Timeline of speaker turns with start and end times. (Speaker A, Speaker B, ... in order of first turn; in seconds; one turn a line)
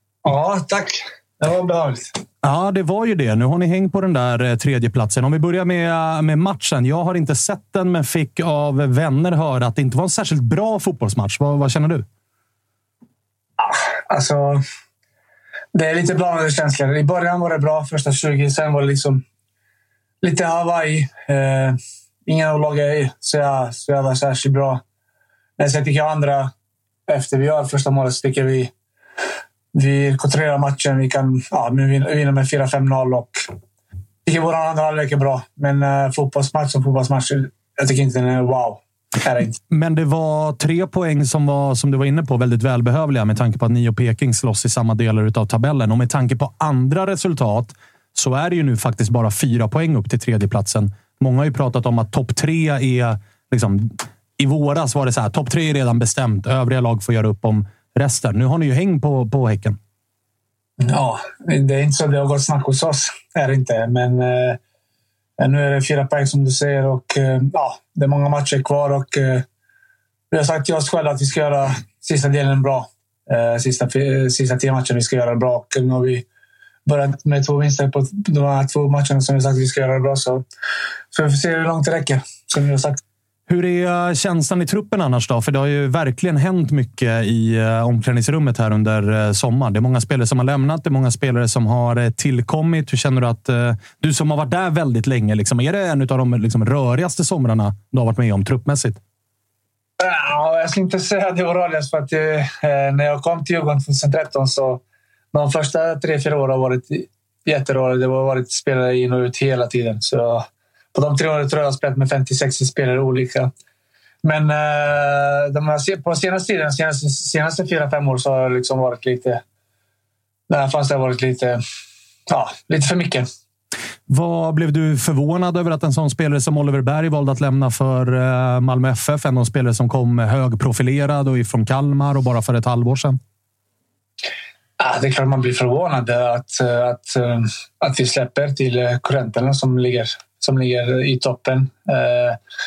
Speaker A: 0.2-2.1
Speaker B: 2.4-12.0
Speaker A: 13.6-14.6
Speaker A: 15.8-19.2
Speaker A: 20.2-24.8
Speaker A: 25.6-26.5
Speaker A: 27.1-28.7
Speaker A: 29.7-33.4
Speaker A: 34.2-39.6
Speaker B: 39.7-59.8
Speaker A: 60.8-64.6
Speaker A: 65.4-69.4
Speaker A: 70.3-76.2
Speaker A: 76.9-80.4
Speaker A: 81.1-83.0
Speaker B: 83.5-99.0
Speaker A: 100.0-104.8
Speaker A: 105.3-113.5
Speaker A: 114.2-119.4
Speaker A: 120.5-121.6
Speaker A: 122.3-123.3
Speaker B: 124.1-133.2
Speaker A: 134.8-142.4